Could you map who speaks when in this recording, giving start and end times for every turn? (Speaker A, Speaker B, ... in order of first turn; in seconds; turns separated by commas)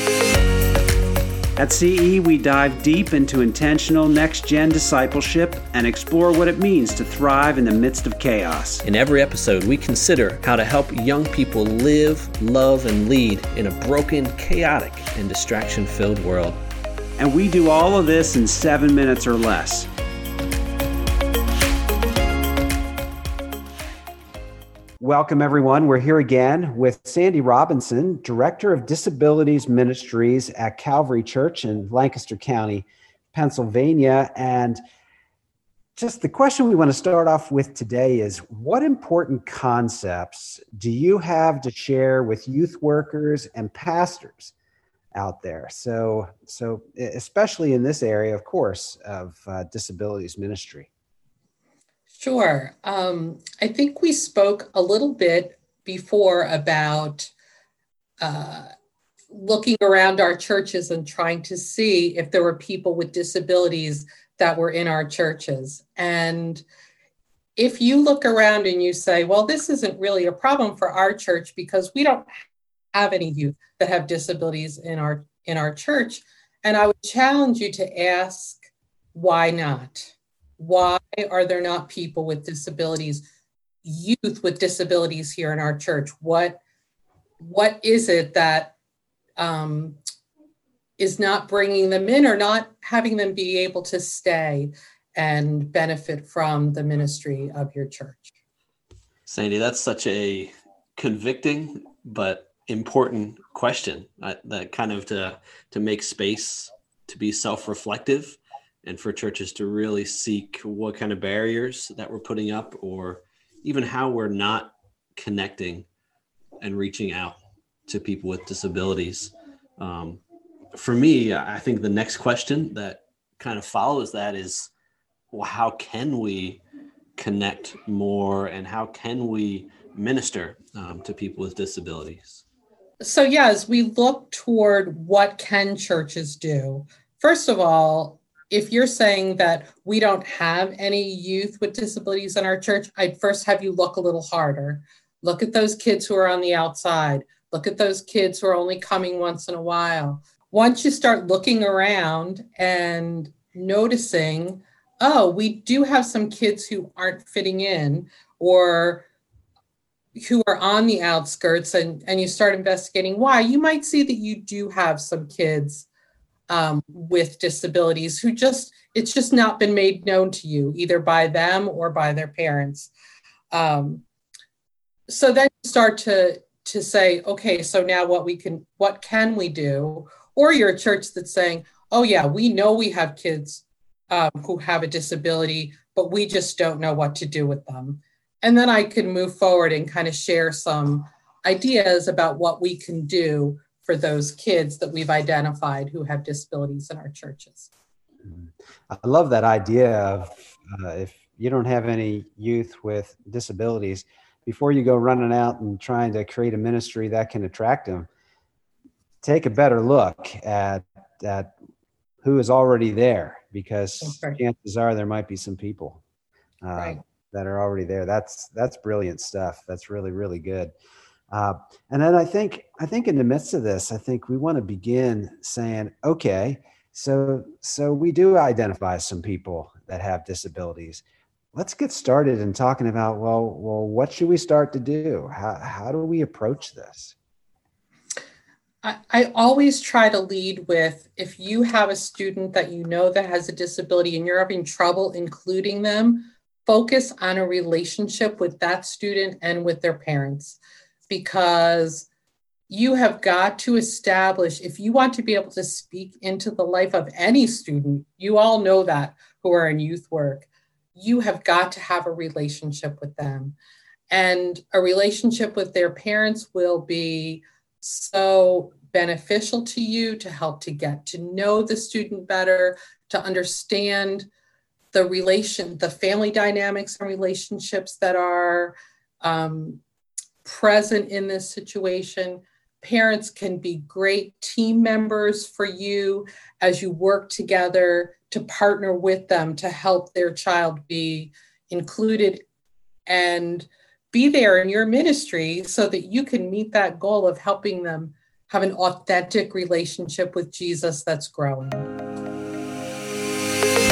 Speaker A: 1.6-8.8, Speaker B: 8.8-16.6, Speaker A: 17.2-19.9, Speaker A: 25.0-34.8, Speaker A: 36.0-44.5, Speaker A: 45.1-50.9, Speaker C: 52.1-57.3, Speaker C: 58.2-58.7, Speaker C: 59.3-66.6, Speaker C: 67.5-72.3, Speaker C: 72.9-83.2, Speaker C: 83.8-86.6, Speaker C: 87.4-88.7, Speaker C: 89.4-90.0, Speaker C: 91.0-98.3, Speaker B: 99.3-115.9, Speaker B: 116.6-120.2, Speaker B: 120.7-124.7, Speaker B: 125.3-126.6, Speaker B: 127.2-132.4, Speaker C: 133.0-159.1, Speaker C: 160.2-165.9, Speaker C: 166.5-172.9, Speaker C: 173.5-174.0, Speaker C: 175.1-197.7, Speaker A: 198.2-208.1, Speaker A: 209.2-211.5, Speaker A: 212.2-216.0, Speaker C: 214.0-214.4, Speaker A: 216.6-220.7, Speaker C: 216.8-217.0, Speaker A: 221.3-231.0, Speaker A: 231.5-237.1, Speaker C: 238.8-252.1, Speaker C: 252.7-263.6, Speaker C: 264.1-274.3, Speaker C: 274.9-279.8, Speaker C: 280.4-292.4, Speaker C: 293.1-301.9